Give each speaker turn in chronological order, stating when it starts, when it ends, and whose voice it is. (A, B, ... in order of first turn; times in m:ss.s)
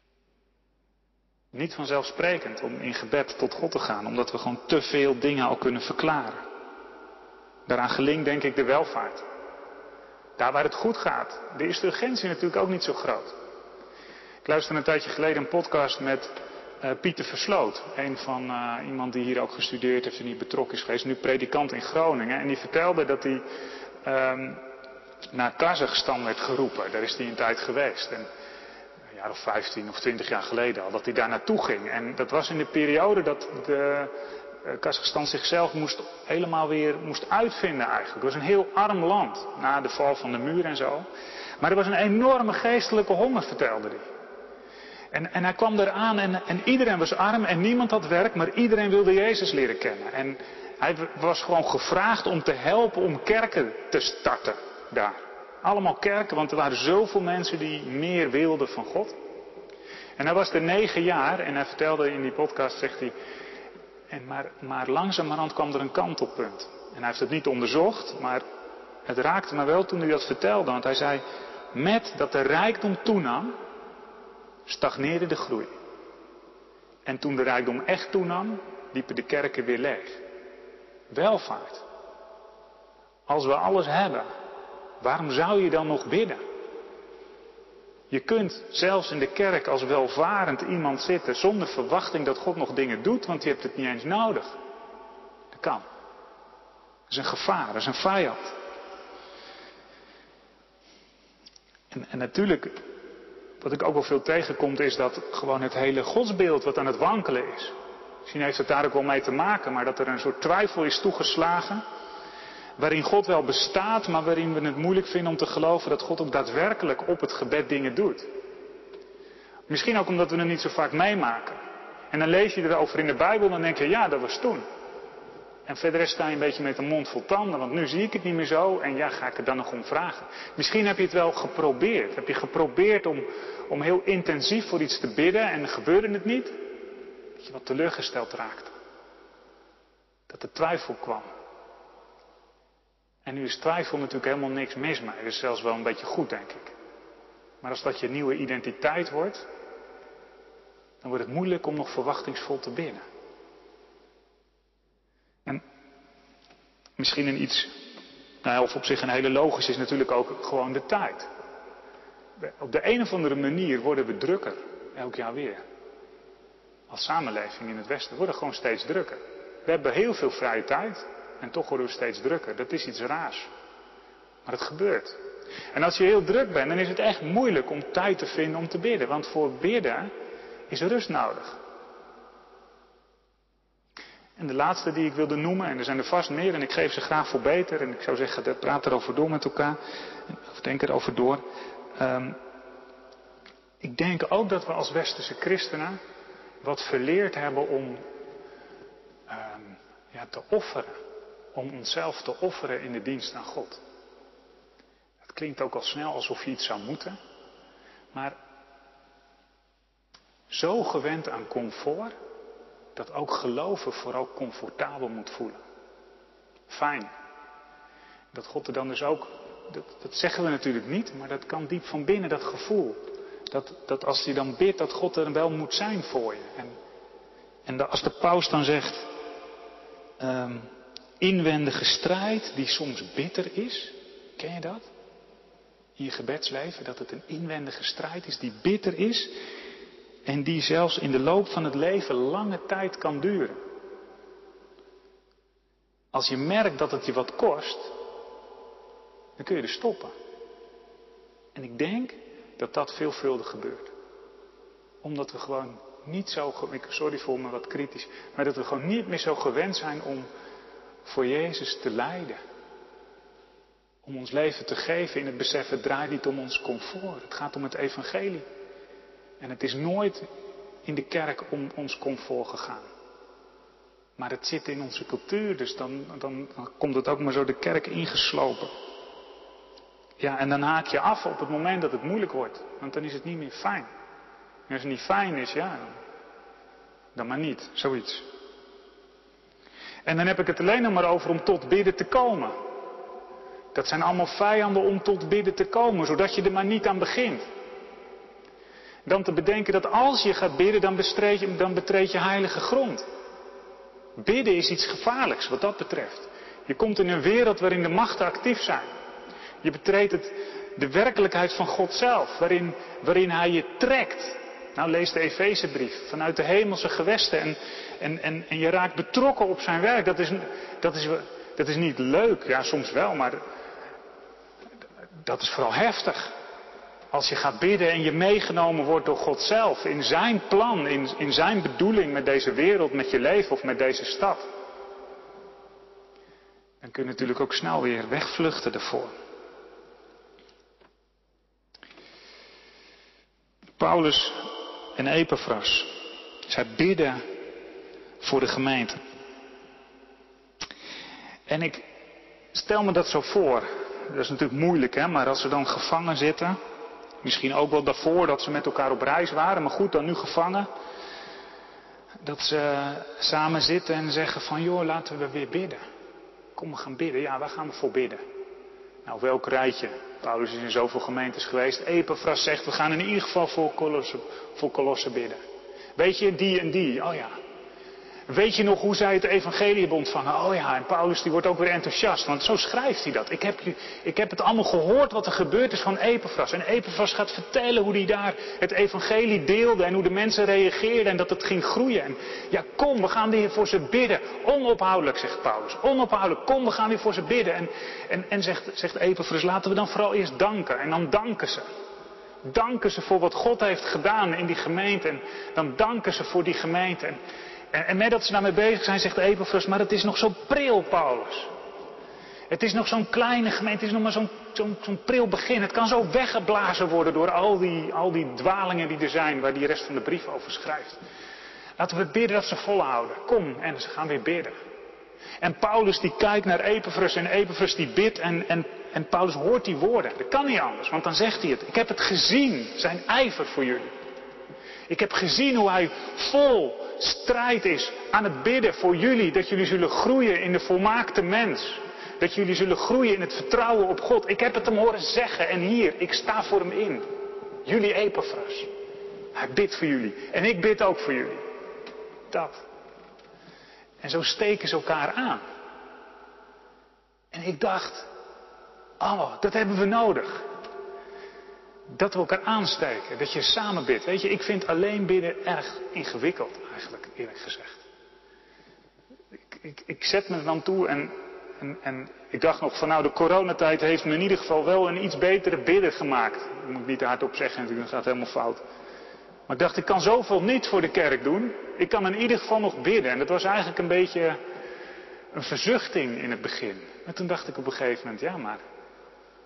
0:01.5-0:06.4 A
0:07.7-0:09.2 A
0:10.4-0:13.3 A
0:14.4-0:23.4 A
0:24.0-0:24.6 A
0:25.3-0:28.3 A
0:29.1-0:41.1 A
0:41.6-0:44.0 A
0:45.1-0:59.2 A
1:00.2-1:03.1 A
1:04.1-1:08.4 A
1:09.0-1:13.6 A
1:14.7-1:15.7 A
1:17.0-1:20.2 A
1:21.1-1:21.8 A
1:23.3-1:24.3 A
1:25.0-1:26.4 A
1:28.1-1:34.6 A
1:35.5-1:35.8 A
1:37.1-1:38.5 A
1:41.9-1:42.8 A
1:43.6-1:47.7 A
1:48.2-1:51.8 A
1:52.8-1:58.3 A
1:59.7-2:01.6 A
2:02.1-2:04.6 A
2:05.7-2:16.6 A
2:17.4-2:18.7 A
2:20.3-2:21.3 A
2:23.2-2:26.7 A
2:27.6-2:29.5 A
2:31.0-2:33.0 A
2:37.0-2:37.8 A
2:38.4-2:41.3 A
2:42.4-2:45.6 A
2:46.9-2:53.5 A
2:54.4-2:55.2 A
2:55.7-3:00.1 A
3:00.7-3:01.6 A
3:04.4-3:11.4 A
3:11.9-3:12.4 A
3:13.8-3:16.0 A
3:16.6-3:18.0 A
3:19.3-3:21.0 A
3:21.5-3:23.8 A
3:25.2-3:27.2 A
3:30.5-3:32.1 A
3:33.0-3:35.6 A
3:36.7-3:37.1 A
3:38.3-3:46.8 A
3:47.6-3:49.1 A
3:50.2-3:54.9 A
3:56.0-3:59.3 A
4:00.2-4:03.6 A
4:06.1-4:07.9 A
4:09.4-4:10.1 A
4:11.5-4:13.9 A
4:15.0-4:20.3 A
4:21.0-4:22.4 A
4:24.0-4:28.4 A
4:29.4-4:30.2 A
4:30.8-4:32.9 A
4:34.2-4:38.7 A
4:40.2-4:43.9 A
4:44.7-4:46.0 A
4:47.1-4:48.3 A
4:50.0-4:52.6 A
4:53.7-4:57.4 A
4:59.0-5:03.0 A
5:04.2-5:08.9 A
5:09.6-5:23.4 A
5:25.2-5:26.3 A
5:27.1-5:34.4 A
5:36.8-5:39.1 A
5:43.8-5:47.2 A
5:48.2-5:49.0 A
5:51.5-5:51.8 A
5:52.5-5:56.6 A
5:57.2-6:00.7 A
6:02.2-6:05.8 A
6:06.6-6:08.2 A
6:09.0-6:15.4 A
6:16.0-6:17.4 A
6:18.3-6:41.6 A
6:42.4-6:47.2 A
6:47.7-6:51.5 A
6:52.5-7:01.0 A
7:01.8-7:04.6 A
7:05.4-7:13.9 A
7:14.9-7:27.0 A
7:27.6-7:28.7 A
7:29.3-7:31.4 A
7:32.3-7:32.6 A
7:34.0-7:35.4 A
7:37.3-7:38.1 A
7:39.0-7:40.5 A
7:41.9-7:47.8 A
7:49.5-7:58.6 A
7:59.5-8:04.4 A
8:05.3-8:08.6 A